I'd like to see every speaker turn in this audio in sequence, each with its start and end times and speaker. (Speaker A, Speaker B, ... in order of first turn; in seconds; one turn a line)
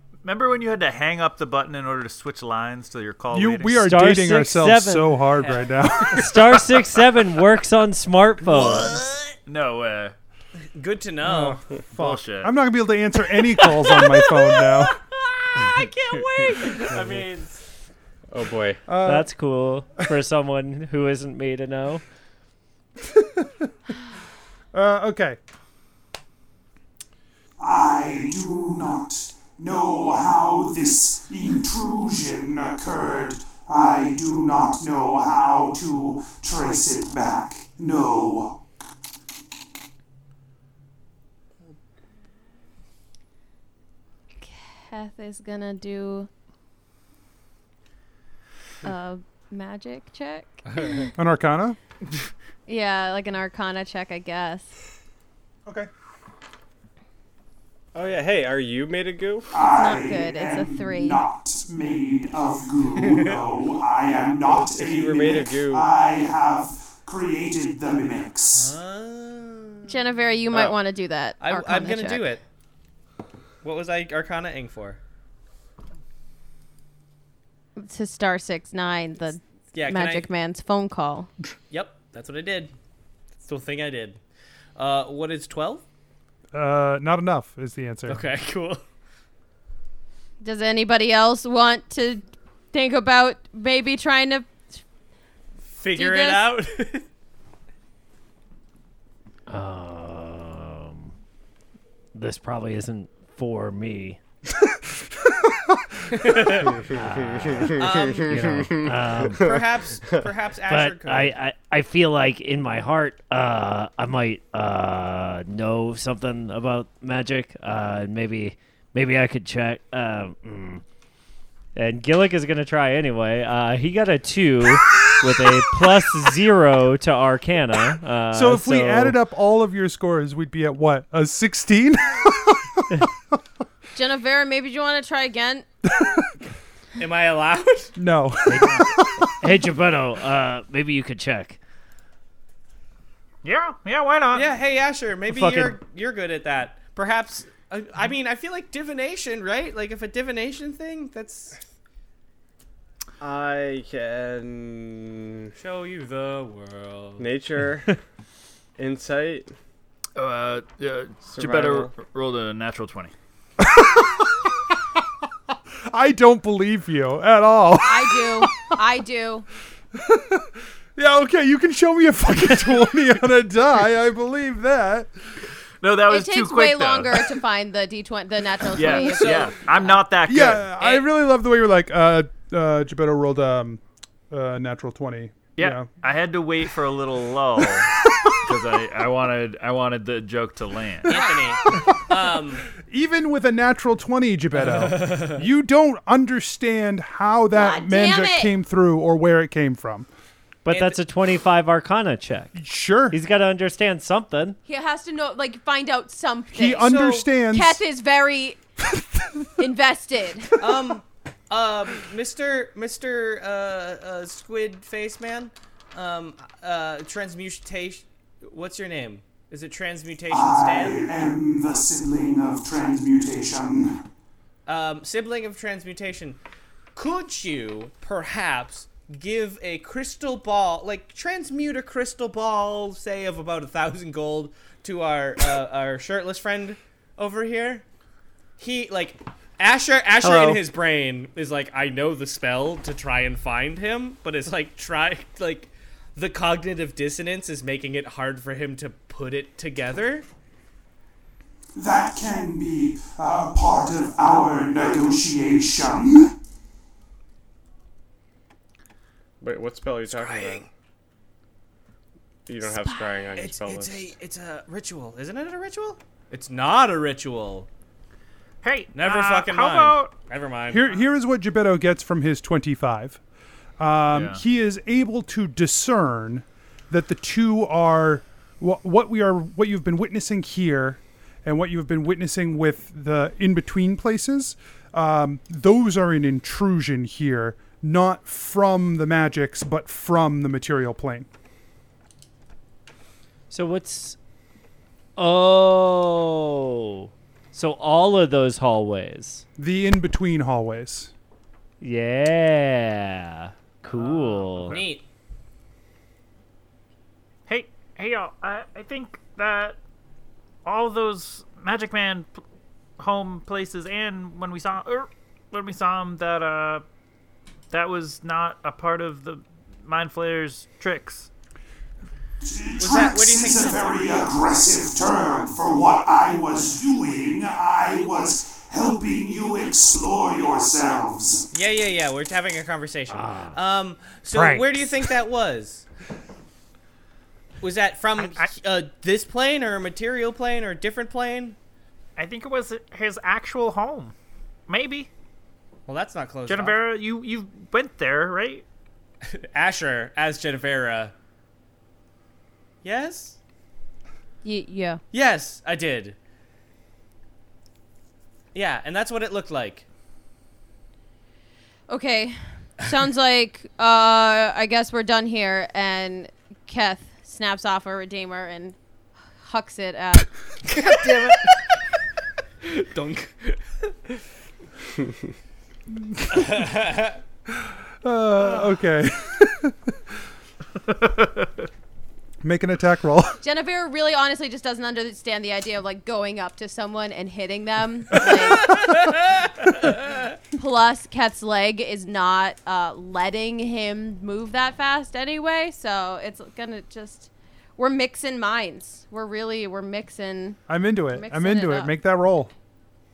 Speaker A: 0.2-3.9
Speaker B: 3.3-6.6
Speaker C: 3.8-5.3
Speaker D: 5.4-5.8
Speaker C: 6.1-9.0
Speaker A: 9.5-10.2
Speaker D: 10.7-11.6
Speaker B: 11.2-15.0
Speaker A: 11.9-12.5
Speaker A: 15.6-17.3
Speaker C: 15.6-15.9
Speaker D: 16.4-17.2
Speaker C: 16.6-17.2
Speaker E: 18.3-18.9
Speaker B: 18.9-19.4
Speaker C: 19.0-22.0
Speaker B: 23.1-23.5
Speaker B: 24.7-25.4
Speaker F: 27.6-38.6
Speaker G: 44.4-46.3
Speaker G: 48.8-51.1
Speaker B: 51.2-51.8
Speaker G: 52.7-54.7
Speaker E: 57.9-59.5
Speaker F: 59.5-68.7
Speaker G: 59.7-61.2
Speaker D: 63.0-63.4
Speaker E: 64.5-65.8
Speaker D: 68.6-70.0
Speaker G: 69.9-72.3
Speaker D: 70.5-70.8
Speaker D: 71.4-72.4
Speaker D: 73.6-75.0
Speaker G: 77.8-81.3
Speaker D: 79.7-80.3
Speaker D: 81.7-82.7
Speaker D: 83.4-84.2
Speaker D: 84.8-85.8
Speaker B: 86.5-88.3
Speaker D: 88.1-88.8
Speaker G: 90.4-94.6
Speaker D: 95.7-97.1
Speaker G: 95.9-96.6
Speaker C: 99.5-101.1
Speaker C: 102.1-104.2
Speaker D: 106.1-106.8
Speaker C: 106.9-109.6
Speaker E: 107.3-109.6
Speaker D: 107.8-108.4
Speaker D: 109.3-111.3
Speaker C: 110.7-120.8
Speaker C: 121.8-129.2
Speaker B: 128.3-133.0
Speaker G: 133.9-135.7
Speaker B: 135.9-136.3
Speaker D: 137.0-137.9
Speaker B: 137.9-139.6
Speaker C: 138.5-138.8
Speaker C: 139.4-141.6
Speaker A: 143.4-144.5
Speaker D: 144.3-151.6
Speaker C: 145.3-145.8
Speaker E: 153.2-155.5
Speaker D: 155.6-157.3
Speaker E: 157.2-157.9
Speaker E: 158.8-159.5
Speaker A: 160.2-163.1
Speaker E: 161.3-161.9
Speaker B: 163.6-164.2
Speaker B: 165.9-168.7
Speaker G: 167.8-169.5
Speaker B: 169.9-175.1
Speaker A: 175.8-177.1
Speaker G: 176.1-180.0
Speaker A: 178.8-181.1
Speaker D: 178.8-179.5
Speaker B: 180.2-185.9
Speaker A: 185.6-191.3
Speaker D: 191.1-192.7
Speaker B: 191.7-200.1
Speaker D: 194.6-195.4
Speaker G: 197.5-198.5
Speaker C: 200.7-202.6
Speaker D: 200.7-201.0
Speaker B: 202.6-203.2
Speaker C: 203.1-204.6
Speaker G: 204.7-208.6
Speaker B: 206.5-207.8
Speaker D: 206.8-207.2
Speaker G: 209.6-210.6
Speaker D: 210.6-221.1
Speaker F: 220.3-224.0
Speaker D: 224.7-226.4
Speaker D: 226.9-237.8
Speaker D: 238.6-250.3
Speaker C: 240.2-240.7
Speaker F: 251.8-256.3
Speaker E: 259.4-260.7
Speaker D: 260.1-260.6
Speaker E: 262.5-264.1
Speaker D: 262.8-267.7
Speaker A: 268.6-270.1
Speaker D: 268.9-271.0
Speaker B: 270.7-273.2
Speaker B: 273.8-291.3
Speaker A: 274.1-274.4
Speaker C: 293.5-294.2
Speaker C: 295.2-299.4
Speaker B: 299.6-301.1
Speaker C: 301.8-304.8
Speaker D: 304.0-305.1
Speaker A: 307.5-309.8
Speaker A: 310.6-312.4
Speaker A: 313.0-316.8
Speaker A: 317.7-321.3
Speaker F: 322.4-331.5
Speaker D: 322.8-323.9
Speaker D: 331.5-335.9
Speaker C: 333.1-333.6
Speaker C: 334.3-335.1
Speaker D: 337.6-341.6
Speaker A: 338.2-338.5
Speaker A: 342.2-344.1
Speaker A: 344.7-345.1
Speaker D: 345.9-346.8
Speaker A: 346.5-348.6
Speaker D: 349.2-351.1
Speaker D: 352.8-353.4
Speaker G: 354.4-355.0
Speaker D: 355.1-356.2
Speaker D: 358.5-359.9
Speaker G: 361.9-368.8
Speaker G: 369.4-370.3
Speaker D: 370.7-371.8
Speaker D: 372.6-374.1
Speaker B: 376.1-376.6
Speaker D: 376.3-377.2
Speaker B: 378.0-379.8
Speaker B: 382.4-383.4
Speaker G: 383.4-388.8
Speaker D: 388.4-390.3
Speaker G: 390.5-400.6
Speaker B: 400.7-402.5
Speaker G: 401.1-401.9